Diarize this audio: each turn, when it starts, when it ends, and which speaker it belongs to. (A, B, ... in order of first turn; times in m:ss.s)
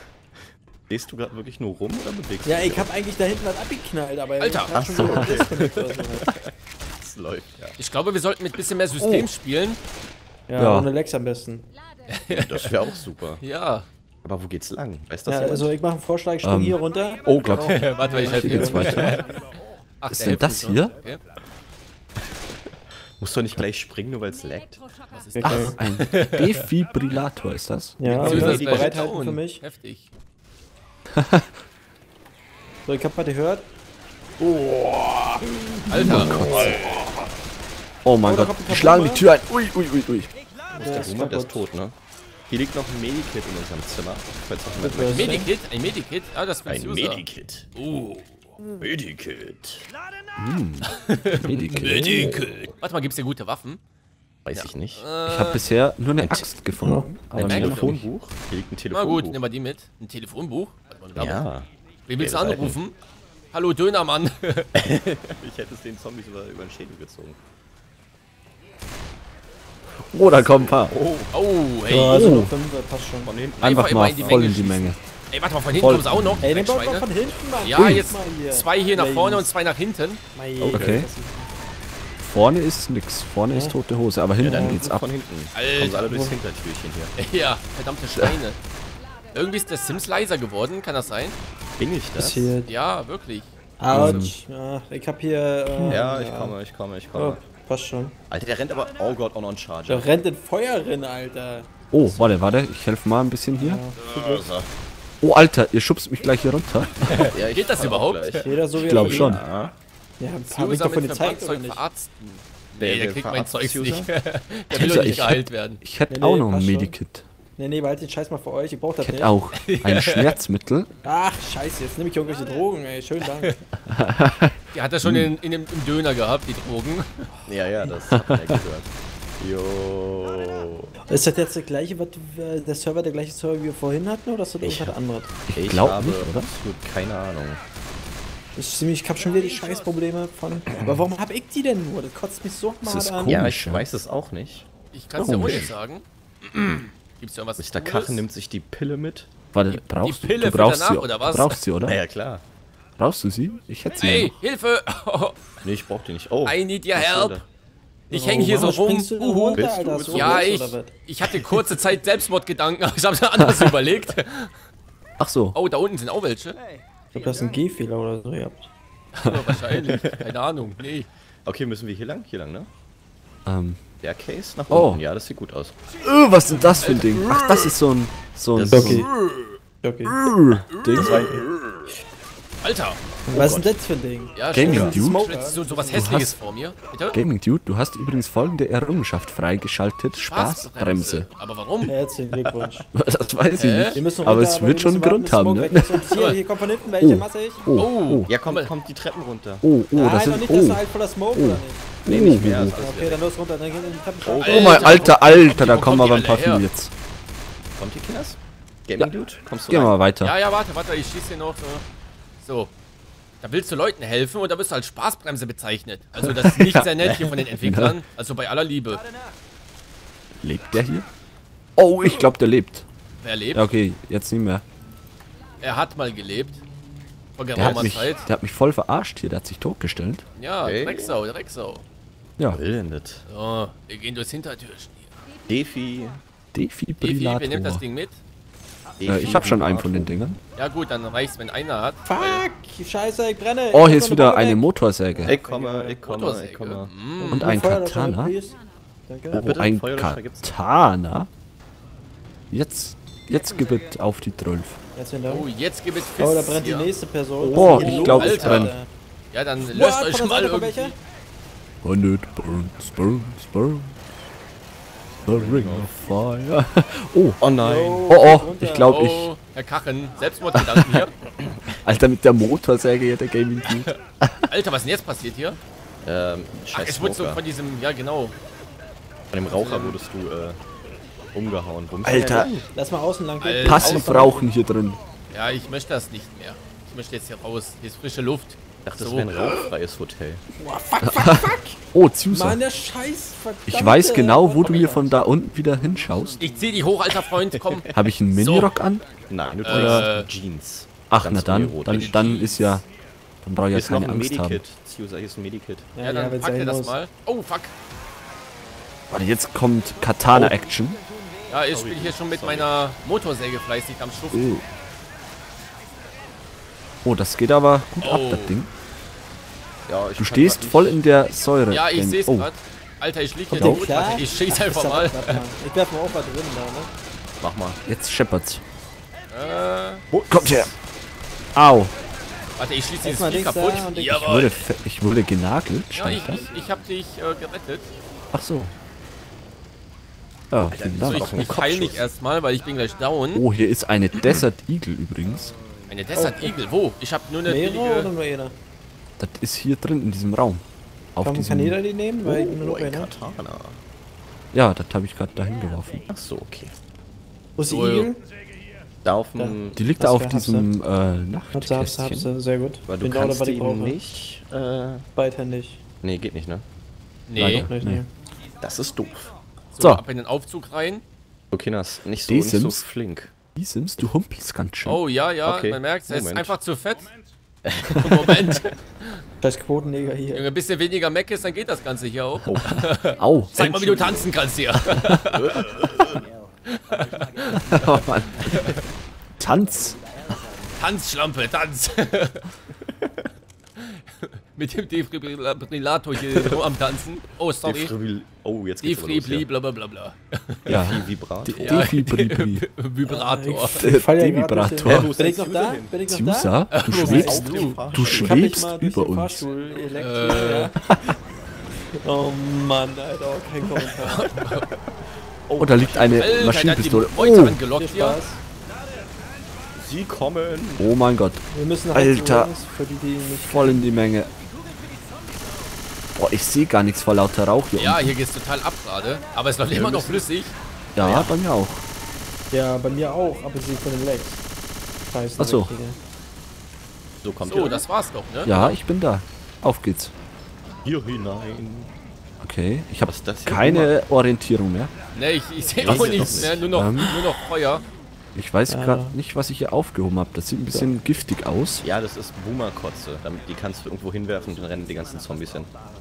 0:00.9-0:02.9 A
0:02.4-0:06.3 B
0:04.4-0:04.8 C
0:04.7-0:06.4 A
0:05.0-0:05.7 D
0:07.0-0:07.8 A
0:07.8-0:09.8 C
0:10.5-0:11.7 B
0:10.6-0:10.9 D
0:12.1-0:13.9 C
0:12.3-0:13.4 A
0:14.2-0:15.8 A
0:15.3-0:19.0 B
0:16.4-0:16.8 D
0:17.2-0:19.2 A
0:17.4-0:19.2 D
0:17.7-0:19.4 C
0:20.0-0:21.2 C
0:20.1-0:21.0 D
0:23.2-0:24.8 A
0:25.1-0:26.6 C
0:25.4-0:25.8 B
0:25.4-0:28.5 D
0:28.0-0:29.6 B
0:28.0-0:29.0 A
0:28.2-0:30.1 C
0:31.2-0:31.5 D
0:32.9-0:33.7 B
0:35.9-0:36.8 C
0:35.9-0:36.8 D
0:36.0-0:36.7 A
0:36.2-0:36.7 B
0:38.0-0:40.3 D
0:38.2-0:39.3 B
0:40.7-0:41.6 B
0:40.8-0:42.0 A
0:42.5-0:45.5 A
0:44.8-0:45.5 B
0:45.0-0:48.3 C
0:46.7-0:47.7 A
0:48.6-0:48.9 B
0:48.8-0:49.9 A
0:50.4-0:52.4 D
0:50.9-0:53.8 C
0:54.5-0:55.0 A
0:54.6-0:55.6 C
0:55.3-0:58.1 D
0:56.2-0:56.5 A
0:56.8-0:57.2 B
0:57.4-0:59.4 A
0:57.4-0:58.0 C
0:58.9-1:01.5 C
1:01.2-1:01.7 A
1:02.1-1:03.0 C
1:02.2-1:02.8 A
1:03.5-1:04.7 C
1:04.8-1:07.4 A
1:10.1-1:11.0 D
1:10.2-1:11.3 A
1:11.3-1:12.3 C
1:11.9-1:13.3 B
1:12.1-1:12.5 D
1:13.2-1:14.6 A
1:13.6-1:20.2 C
1:13.6-1:15.0 D
1:15.8-1:16.5 D
1:16.4-1:19.5 B
1:17.8-1:18.1 D
1:20.3-1:21.5 B
1:20.6-1:21.1 D
1:22.2-1:25.0 D
1:23.5-1:23.8 B
1:24.4-1:27.1 A
1:24.4-1:24.8 B
1:25.5-1:26.3 C
1:26.1-1:26.4 B
1:27.2-1:28.6 C
1:29.3-1:31.4 C
1:31.8-1:32.6 A
1:32.2-1:32.7 B
1:32.7-1:33.5 C
1:33.8-1:36.6 B
1:33.9-1:34.4 D
1:35.7-1:36.0 D
1:35.9-1:37.4 A
1:37.2-1:38.2 B
1:38.3-1:40.1 A
1:39.9-1:41.7 B
1:41.9-1:43.8 D
1:42.0-1:42.4 A
1:43.6-1:44.5 B
1:44.0-1:44.7 A
1:45.2-1:47.3 D
1:47.1-1:49.3 C
1:47.2-1:49.8 A
1:48.4-1:49.4 B
1:48.8-1:49.4 D
1:50.2-1:51.8 B
1:50.5-1:55.8 C
1:52.8-1:54.1 A
1:54.7-1:57.3 D
1:56.1-1:56.9 B
1:57.6-1:59.3 B
1:59.0-2:00.9 D
1:59.6-2:00.4 C
2:01.0-2:03.6 B
2:03.3-2:03.5 C
2:03.9-2:05.3 D
2:04.7-2:07.1 C
2:07.5-2:10.9 A
2:08.2-2:08.6 D
2:11.1-2:15.3 B
2:14.6-2:15.0 A
2:15.5-2:16.5 D
2:15.6-2:17.6 A
2:18.6-2:23.4 B
2:22.8-2:23.8 D
2:23.2-2:25.8 A
2:24.9-2:28.2 C
2:25.2-2:25.7 D
2:27.6-2:29.3 A
2:29.5-2:32.0 D
2:29.7-2:31.6 C
2:31.8-2:32.4 A
2:33.0-2:34.4 D
2:34.0-2:35.5 C
2:35.6-2:37.5 A
2:36.4-2:37.4 C
2:38.1-2:44.5 C
2:38.1-2:40.9 B
2:39.6-2:40.6 A
2:43.4-2:43.7 D
2:45.2-2:45.6 D
2:45.5-2:46.6 C
2:47.1-2:48.7 B
2:49.1-2:51.1 C
2:49.3-2:49.6 D
2:49.8-2:50.3 A
2:51.5-2:52.7 A
2:53.5-2:53.8 D
2:54.0-2:55.8 A
2:54.7-2:55.0 D
2:56.0-2:59.1 D
2:56.5-2:57.8 C
2:58.6-2:59.0 A
2:58.7-2:59.1 B
2:59.2-2:59.6 C
2:59.8-3:00.2 B
3:00.1-3:01.4 D
3:00.8-3:01.7 C
3:01.0-3:01.4 A
3:02.6-3:03.0 C
3:03.3-3:06.2 B
3:03.3-3:03.7 D
3:04.4-3:07.2 C
3:04.5-3:05.2 D
3:05.9-3:06.4 D
3:07.1-3:11.3 D
3:10.2-3:11.9 C
3:11.8-3:12.9 B
3:12.9-3:16.1 D
3:13.5-3:14.0 C
3:13.9-3:17.7 B
3:17.0-3:18.3 D
3:17.8-3:18.7 C
3:18.3-3:19.7 A
3:19.6-3:20.8 D
3:20.0-3:25.1 B
3:21.3-3:22.8 D
3:22.1-3:23.2 A
3:24.2-3:25.2 A
3:24.4-3:26.6 C
3:24.5-3:26.9 D
3:27.8-3:30.0 A
3:29.7-3:30.4 D
3:30.2-3:31.8 C
3:32.4-3:32.7 C
3:33.4-3:39.0 C
3:36.2-3:36.9 D
3:37.0-3:37.4 A
3:37.6-3:38.0 D
3:40.4-3:41.1 D
3:41.8-3:42.9 D
3:43.2-3:43.7 C
3:43.5-3:44.6 D
3:45.6-3:46.6 C
3:47.4-3:48.3 C
3:47.6-3:47.9 A
3:47.6-3:50.2 D
3:50.4-3:51.8 C
3:50.6-3:51.2 A
3:52.5-3:53.2 A
3:53.3-3:55.2 C
3:55.5-3:56.2 A
3:56.5-3:57.8 D
3:57.0-3:58.2 C
3:59.0-4:00.3 A
3:59.0-4:00.4 D
4:00.6-4:02.4 C
4:02.0-4:06.0 B
4:03.7-4:05.4 D
4:05.3-4:06.9 A
4:06.0-4:07.5 C
4:07.2-4:09.5 B
4:07.3-4:08.3 D
4:09.3-4:11.3 D
4:09.3-4:10.5 A
4:12.5-4:14.8 D
4:15.0-4:15.5 B
4:15.3-4:16.9 C
4:16.2-4:18.9 B
4:17.4-4:18.4 A
4:17.5-4:18.8 D
4:17.8-4:18.7 C
4:19.3-4:21.0 C
4:19.6-4:21.0 B
4:21.8-4:24.0 D
4:25.2-4:25.9 A
4:25.3-4:27.4 D
4:27.4-4:28.1 A
4:27.6-4:29.0 B
4:28.1-4:29.3 D
4:28.9-4:31.2 C
4:30.5-4:31.0 D
4:31.8-4:34.4 D
4:34.5-4:35.6 C
4:36.0-4:37.4 A
4:36.7-4:38.4 C
4:39.3-4:40.6 A
4:39.5-4:40.0 C
4:41.3-4:42.7 A
4:42.0-4:42.5 D
4:42.7-4:44.5 B
4:43.4-4:44.3 C
4:43.6-4:45.0 D
4:43.8-4:44.2 A
4:45.3-4:49.6 C
4:48.8-4:50.4 A
4:50.6-4:51.8 B
4:51.0-4:52.6 D
4:52.3-4:55.3 B
4:53.7-4:56.4 D
4:56.4-4:58.7 C
4:57.2-4:58.0 A
4:57.9-4:59.1 D
4:59.3-5:02.4 A
4:59.6-5:00.3 C
4:59.7-5:00.1 D
5:01.1-5:02.8 D
5:01.9-5:02.8 C
5:03.4-5:04.6 D
5:03.7-5:05.9 A
5:06.0-5:07.0 B
5:06.0-5:07.7 C
5:09.1-5:11.0 D
5:10.3-5:10.6 A
5:11.5-5:14.6 C
5:11.7-5:12.8 A
5:14.3-5:14.6 D
5:17.0-5:18.7 D
5:18.0-5:18.6 C
5:19.9-5:21.0 A
5:20.2-5:22.5 D
5:21.7-5:25.4 C
5:23.5-5:26.9 B
5:23.6-5:23.9 D
5:27.4-5:27.8 A
5:27.9-5:28.6 D
5:29.3-5:30.1 C
5:30.1-5:30.8 A
5:30.2-5:30.7 D
5:31.6-5:31.9 D
5:32.6-5:34.6 C
5:33.0-5:34.4 B
5:34.2-5:36.5 D
5:36.0-5:37.9 C
5:38.3-5:38.7 D
5:40.5-5:42.0 D
5:40.7-5:42.1 A
5:41.0-5:43.4 C
5:43.3-5:45.6 D
5:45.9-5:48.1 C
5:46.1-5:46.6 B
5:47.5-5:48.6 B
5:49.2-5:50.6 D
5:51.2-5:51.8 D
5:51.2-5:53.1 B
5:52.2-5:53.8 A
5:54.5-5:56.1 D
5:56.1-5:56.7 A
5:57.6-5:58.2 B
5:57.7-5:58.1 C
5:59.0-5:59.8 A
5:59.4-6:00.7 B
5:59.8-6:02.3 D
6:01.5-6:04.0 B
6:02.9-6:05.1 A
6:05.2-6:05.8 B
6:06.0-6:06.7 A
6:07.3-6:07.7 C
6:07.4-6:08.0 D
6:07.4-6:08.1 B
6:08.6-6:09.3 A
6:09.7-6:11.0 C
6:11.5-6:13.3 A
6:12.3-6:12.8 D
6:13.6-6:15.0 D
6:14.8-6:17.1 C
6:15.4-6:16.6 A
6:17.6-6:18.6 A
6:18.0-6:19.2 C
6:19.4-6:20.5 B
6:20.3-6:26.2 C
6:22.5-6:22.8 A
6:23.2-6:23.6 D
6:23.6-6:24.3 A
6:25.3-6:26.2 A
6:26.7-6:28.8 C
6:27.5-6:28.8 D
6:29.4-6:30.0 D
6:30.6-6:32.5 C
6:33.8-6:37.9 C
6:36.2-6:36.6 A
6:37.6-6:39.5 A
6:38.8-6:41.0 C
6:40.7-6:41.9 A
6:40.7-6:42.7 D
6:41.6-6:43.9 C
6:43.1-6:47.2 B
6:43.8-6:45.1 D
6:44.8-6:46.0 A
6:46.1-6:49.4 D
6:46.7-6:47.9 C
6:46.9-6:48.4 A
6:48.0-6:50.8 B
6:50.0-6:50.7 C
6:50.8-6:51.1 D
6:52.0-6:54.4 B
6:54.0-6:54.7 C
6:55.5-6:56.4 A
6:55.6-6:57.6 D
6:56.0-6:58.2 C
6:57.8-6:58.4 B
6:59.7-7:01.0 A
7:00.8-7:02.5 D
7:01.5-7:03.8 B
7:03.4-7:04.3 D
7:06.2-7:08.2 D
7:07.8-7:11.4 C
7:09.7-7:10.3 A
7:11.0-7:11.8 D
7:12.5-7:14.4 B
7:15.1-7:16.0 B
7:15.4-7:15.7 D
7:17.2-7:17.8 A
7:17.4-7:18.8 C
7:18.4-7:20.1 D
7:20.8-7:21.9 A
7:22.4-7:24.9 D
7:23.0-7:23.9 A
7:25.1-7:27.9 C
7:25.8-7:26.8 A
7:25.8-7:27.2 D
7:28.4-7:31.8 D
7:28.7-7:29.2 B
7:31.8-7:35.7 A